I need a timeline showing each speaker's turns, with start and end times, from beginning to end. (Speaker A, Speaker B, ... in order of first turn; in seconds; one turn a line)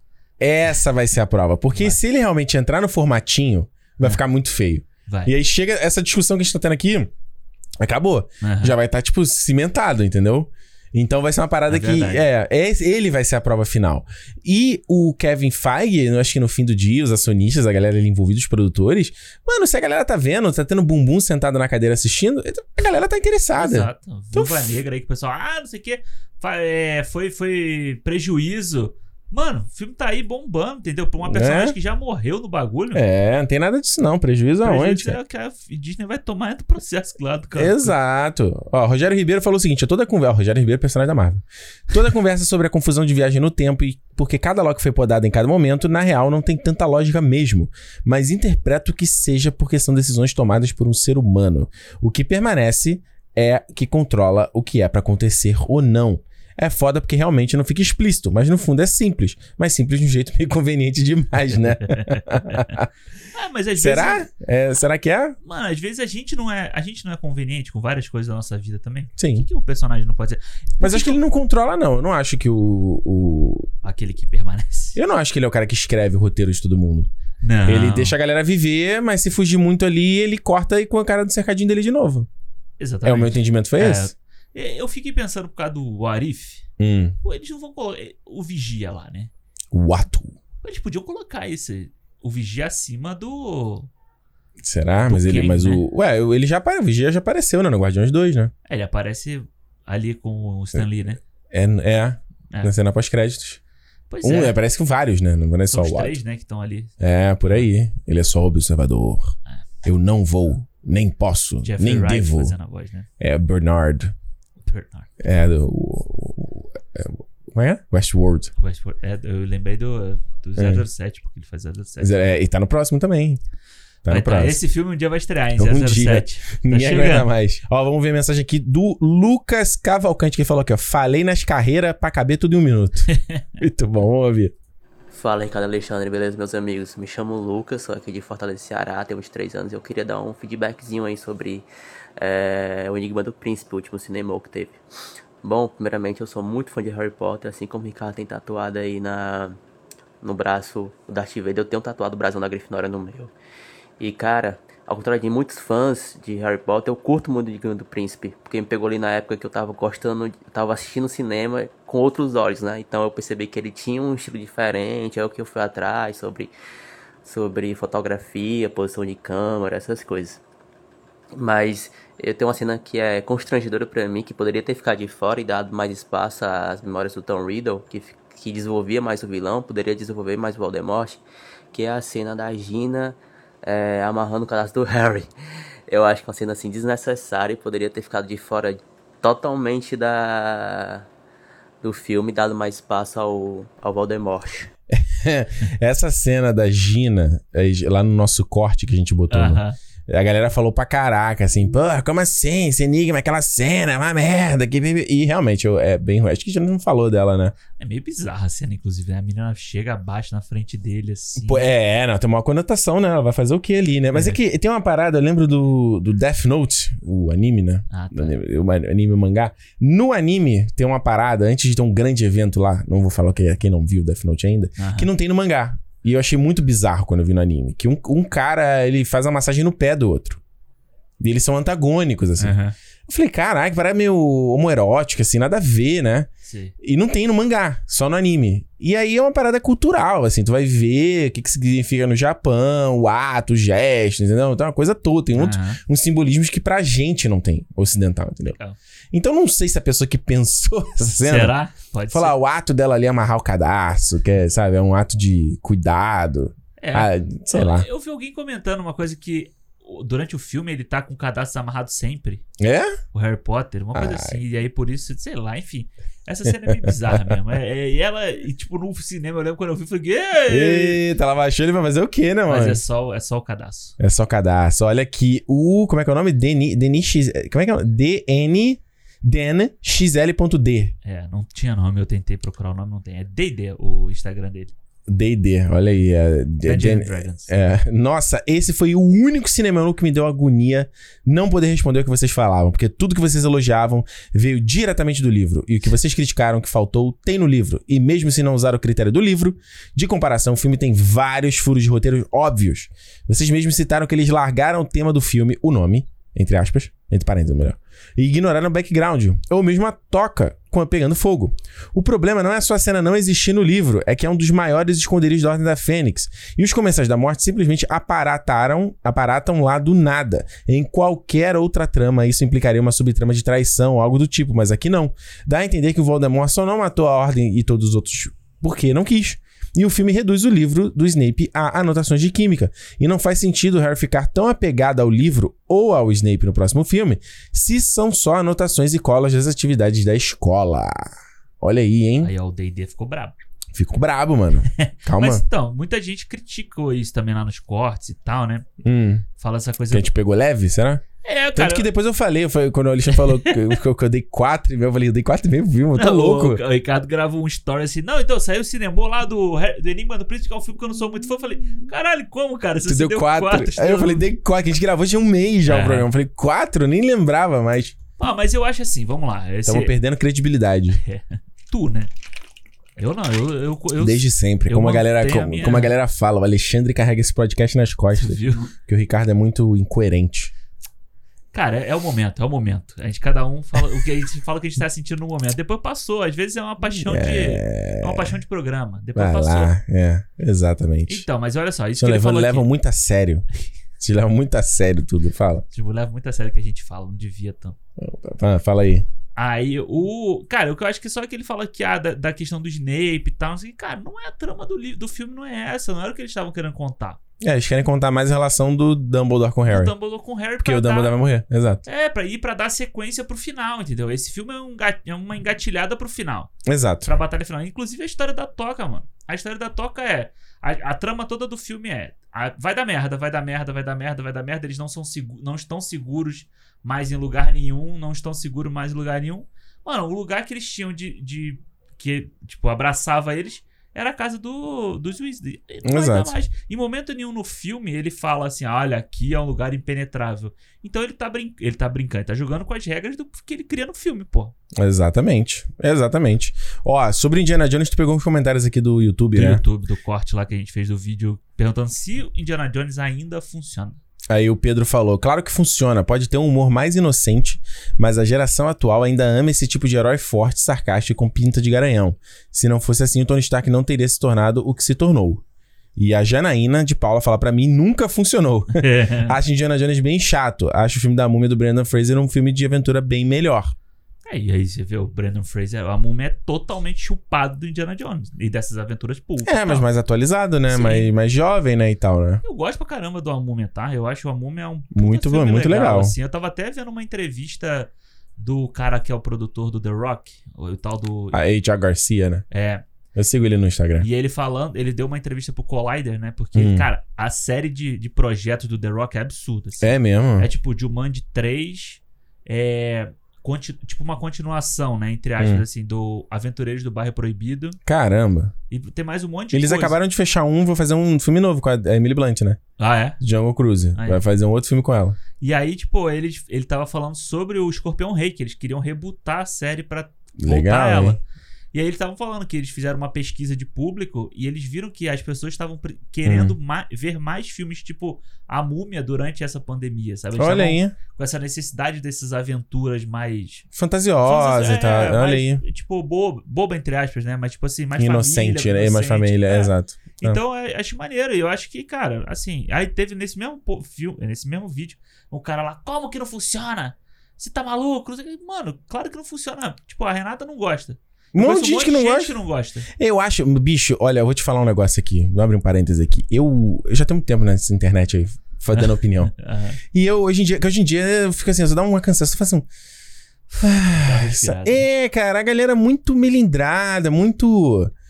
Speaker A: 0.4-7.1
Speaker B: 1.7-2.0
Speaker B: 5.1-5.3
Speaker A: 7.8-24.6
Speaker B: 8.4-8.8
Speaker B: 11.7-12.2
Speaker B: 23.5-33.0
Speaker A: 31.2-31.8
Speaker A: 32.9-35.2
Speaker B: 34.6-37.9
Speaker A: 37.5-62.9
Speaker B: 61.8-62.7
Speaker B: 63.3-64.3
Speaker A: 63.8-65.4
Speaker B: 65.4-71.2
Speaker A: 69.2-69.5
Speaker A: 70.8-73.7
Speaker B: 73.8-75.0
Speaker A: 75.0-77.1
Speaker B: 77.4-78.1
Speaker A: 77.7-82.3
Speaker B: 82.8-86.7
Speaker A: 83.0-84.1
Speaker A: 86.8-87.2
Speaker B: 87.2-89.3
Speaker A: 89.7-90.3
Speaker B: 90.6-93.9
Speaker A: 94.6-98.5
Speaker B: 95.0-95.8
Speaker B: 98.7-101.2
Speaker A: 101.5-103.6
Speaker B: 104.1-104.6
Speaker A: 104.2-106.2
Speaker B: 105.7-106.9
Speaker A: 107.0-112.5
Speaker B: 111.6-113.1
Speaker A: 113.2-114.1
Speaker B: 114.6-115.1
Speaker A: 115.2-118.5
Speaker B: 118.6-122.2
Speaker A: 120.6-120.8
Speaker A: 122.0-123.4
Speaker A: 124.0-124.6
Speaker B: 124.1-127.3
Speaker A: 125.6-134.5
Speaker B: 133.1-133.4
Speaker C: 135.1-141.7
Speaker C: 142.2-144.8
Speaker C: 145.4-149.6
Speaker C: 150.2-153.3
Speaker C: 154.0-166.5
Speaker C: 167.2-170.4
Speaker C: 171.3-185.3
Speaker C: 185.9-191.1
Speaker C: 191.8-194.7
Speaker A: 194.9-207.5
Speaker B: 199.3-199.8
Speaker B: 207.8-211.7
Speaker A: 211.4-230.4
Speaker B: 214.1-214.4
Speaker B: 217.9-218.4
Speaker B: 224.8-225.1
Speaker A: 231.2-232.6
Speaker B: 232.4-232.7
Speaker A: 233.1-236.3
Speaker B: 236.4-236.7
Speaker A: 236.8-248.6
Speaker B: 245.3-245.8
Speaker B: 248.4-248.8
Speaker A: 249.1-251.5
Speaker B: 251.2-252.3
Speaker A: 252.1-257.9
Speaker B: 256.8-262.4
Speaker A: 262.6-263.0
Speaker B: 263.1-271.0
Speaker A: 263.9-264.4
Speaker A: 266.4-267.3
Speaker A: 270.5-272.8
Speaker B: 272.5-273.9
Speaker A: 274.0-280.9
Speaker B: 281.0-284.7
Speaker A: 285.1-342.3
Speaker B: 286.6-287.5
Speaker B: 342.2-343.4
Speaker A: 343.7-345.4
Speaker B: 344.8-348.6
Speaker A: 348.8-349.2
Speaker B: 349.4-350.1
Speaker A: 349.9-356.6
Speaker B: 351.2-351.9
Speaker B: 353.2-353.8
Speaker B: 355.9-364.3
Speaker A: 362.8-367.9
Speaker B: 365.6-366.1
Speaker B: 368.2-369.9
Speaker A: 369.6-371.0
Speaker B: 370.9-372.1
Speaker B: 373.0-375.9
Speaker A: 374.0-380.5
Speaker B: 378.1-378.7
Speaker B: 381.5-389.7
Speaker A: 386.8-388.4
Speaker A: 389.1-391.2
Speaker B: 391.1-392.7
Speaker A: 392.0-393.4
Speaker A: 394.0-395.6
Speaker B: 395.7-397.8
Speaker A: 398.0-399.1
Speaker B: 399.4-407.2
Speaker A: 407.4-409.9
Speaker B: 409.7-411.2
Speaker A: 410.6-411.8
Speaker B: 411.9-416.5
Speaker A: 416.6-417.1
Speaker B: 417.0-444.5
Speaker A: 435.8-436.3
Speaker A: 444.8-449.6
Speaker B: 449.3-454.0
Speaker A: 454.3-465.4
Speaker A: 465.9-473.7
Speaker B: 468.7-469.4
Speaker B: 474.2-479.9
Speaker A: 479.4-482.4
Speaker B: 480.7-481.1
Speaker B: 482.4-491.4
Speaker A: 484.9-486.1
Speaker A: 491.3-492.4
Speaker B: 492.5-492.8
Speaker A: 493.1-494.1
Speaker B: 494.0-507.8
Speaker A: 496.5-496.9
Speaker A: 499.8-500.5
Speaker A: 505.4-505.6
Speaker A: 507.9-508.5
Speaker B: 508.7-510.0
Speaker A: 509.5-512.6
Speaker B: 512.8-513.2
Speaker A: 513.2-515.2
Speaker B: 514.0-514.2
Speaker B: 515.4-521.2
Speaker A: 520.4-521.2
Speaker B: 521.7-533.6
Speaker A: 526.2-526.5
Speaker A: 530.3-531.0
Speaker A: 533.7-535.6
Speaker B: 534.2-552.9
Speaker A: 538.0-540.4
Speaker A: 551.3-559.3
Speaker B: 558.7-559.8
Speaker A: 559.9-562.6
Speaker A: 563.6-567.9
Speaker B: 563.6-564.8